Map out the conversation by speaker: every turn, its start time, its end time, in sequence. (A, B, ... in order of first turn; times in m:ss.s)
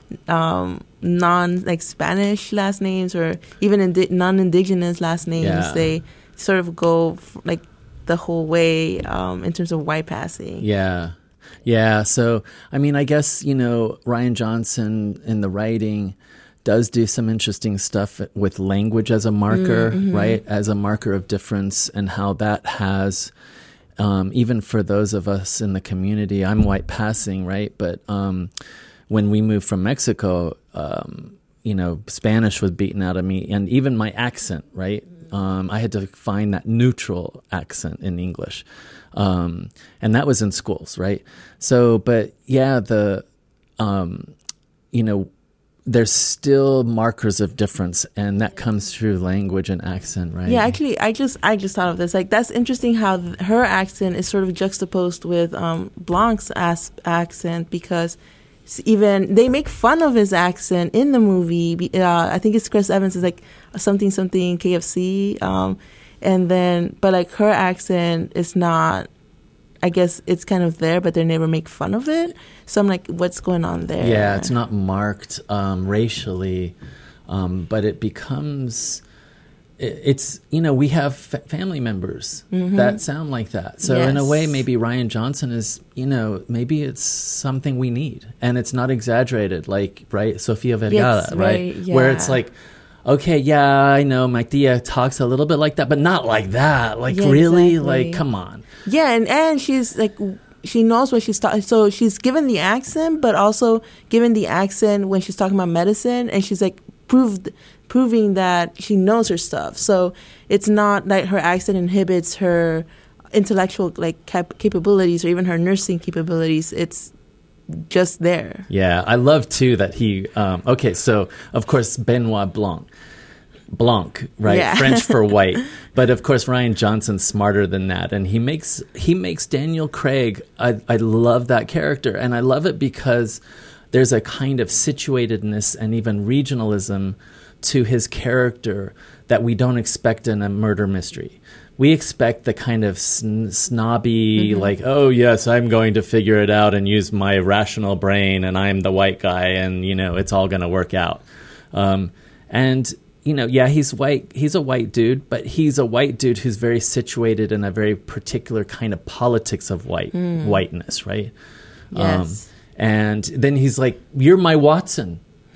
0:00.3-0:10.7 A
0:05.4-0:06.0 B
0:10.6-0:23.3 B
0:19.5-0:20.4 A
0:24.0-0:28.5 B
0:29.1-0:43.2 B
0:43.8-0:44.3 B
0:44.9-0:45.3 B
0:45.9-0:50.8 B
0:50.5-1:09.1 A
1:09.8-1:14.5 A
1:14.0-1:16.8 B
1:17.3-1:19.0 B
1:19.8-1:32.5 B
1:22.5-1:23.0 A
1:23.8-1:24.6 A
1:30.9-1:32.4 A
1:33.0-1:38.6 B
1:37.1-1:38.2 A
1:38.8-1:57.1 A
1:57.7-1:58.7 A
1:58.7-2:02.9 B
2:03.7-2:13.4 B
2:04.5-2:05.2 A
2:13.9-2:41.3 B
2:24.4-2:24.7 A
2:40.1-2:40.6 A
2:41.9-2:42.4 A
2:41.9-2:45.2 B